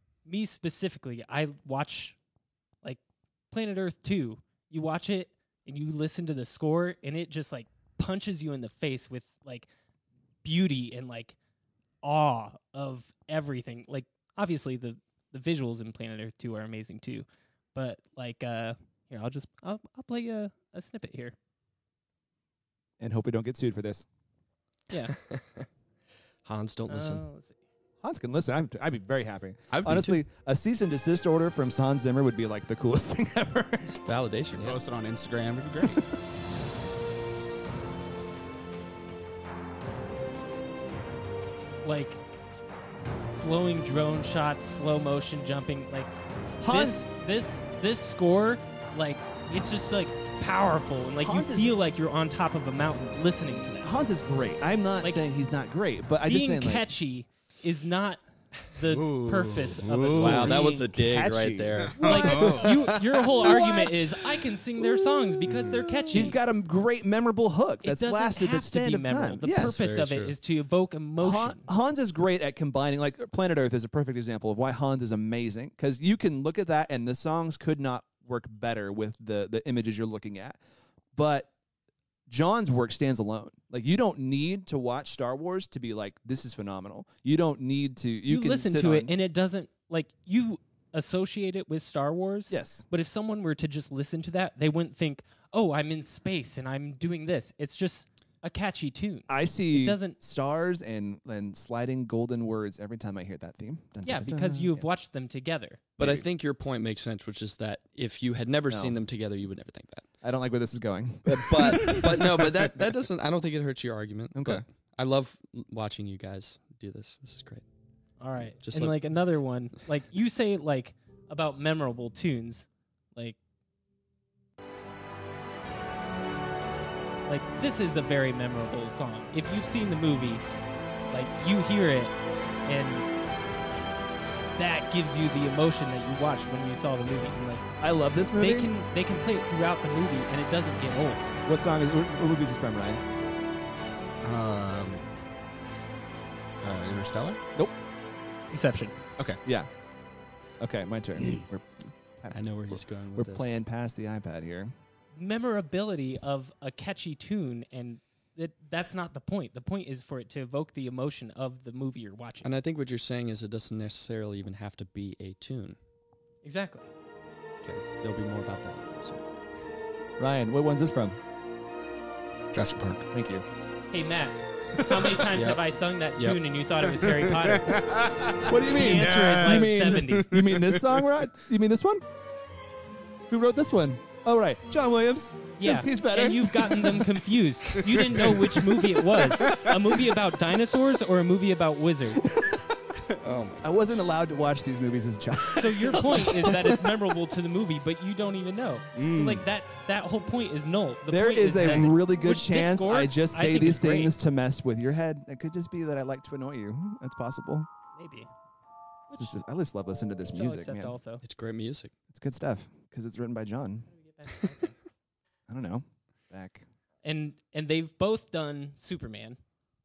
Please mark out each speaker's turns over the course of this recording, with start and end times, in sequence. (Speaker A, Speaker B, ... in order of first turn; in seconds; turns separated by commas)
Speaker A: 0.2-2.2, Speaker A: 2.8-9.7, Speaker A: 10.4-11.3, Speaker A: 12.0-21.4, Speaker B: 23.0-24.0, Speaker A: 24.9-25.1, Speaker C: 25.1-25.7, Speaker C: 26.4-27.3, Speaker A: 26.9-27.6, Speaker B: 28.0-34.0, Speaker C: 29.7-30.2, Speaker C: 33.8-34.8, Speaker D: 34.5-36.0, Speaker A: 41.8-42.2, Speaker A: 43.3-54.0, Speaker B: 46.6-47.0, Speaker B: 51.2-51.7, Speaker B: 53.8-56.9, Speaker A: 56.2-60.8, Speaker D: 58.8-60.6, Speaker C: 60.1-63.6, Speaker B: 60.4-62.7, Speaker D: 61.8-62.9, Speaker A: 62.0-66.4, Speaker B: 63.4-63.9, Speaker B: 64.8-69.8, Speaker D: 65.5-65.8, Speaker A: 67.8-71.7, Speaker C: 69.5-70.3, Speaker B: 71.2-80.6, Speaker B: 81.1-81.5, Speaker B: 82.3-89.1, Speaker A: 88.3-100.2, Speaker B: 92.5-92.8, Speaker B: 99.3-104.8, Speaker A: 104.0-105.8, Speaker C: 106.0-110.1, Speaker B: 106.0-106.2, Speaker B: 108.7-109.0, Speaker B: 110.2-112.7, Speaker C: 111.2-117.6, Speaker B: 114.3-114.6, Speaker A: 118.2-123.4, Speaker C: 118.6-119.0, Speaker A: 127.3-130.4, Speaker A: 131.1-133.1, Speaker A: 134.6-137.7, Speaker B: 137.8-138.7, Speaker A: 138.3-141.3, Speaker B: 141.4-143.0, Speaker D: 144.2-145.1, Speaker D: 146.6-147.4, Speaker A: 148.5-148.9, Speaker B: 149.4-149.7, Speaker B: 150.6-154.7, Speaker C: 152.3-153.5, Speaker A: 155.1-162.5, Speaker C: 162.4-165.8, Speaker A: 166.4-166.9, Speaker C: 167.6-169.2, Speaker B: 170.2-171.2, Speaker D: 172.5-173.1, Speaker B: 173.1-173.4, Speaker A: 173.9-177.8, Speaker B: 174.9-175.1, Speaker C: 175.3-175.6, Speaker D: 177.0-181.0, Speaker B: 178.5-182.0, Speaker A: 178.7-180.3, Speaker B: 183.3-187.1, Speaker A: 185.6-192.3, Speaker C: 193.2-194.0, Speaker B: 193.6-196.6, Speaker A: 195.6-204.1, Speaker D: 198.9-199.4, Speaker B: 201.1-207.7, Speaker A: 207.9-208.3, Speaker A: 209.1-209.3, Speaker B: 209.1-210.9, Speaker A: 210.3-211.2, Speaker C: 211.2-211.9, Speaker B: 212.1-213.9, Speaker A: 213.9-214.8, Speaker B: 215.5-216.6, Speaker A: 217.0-219.4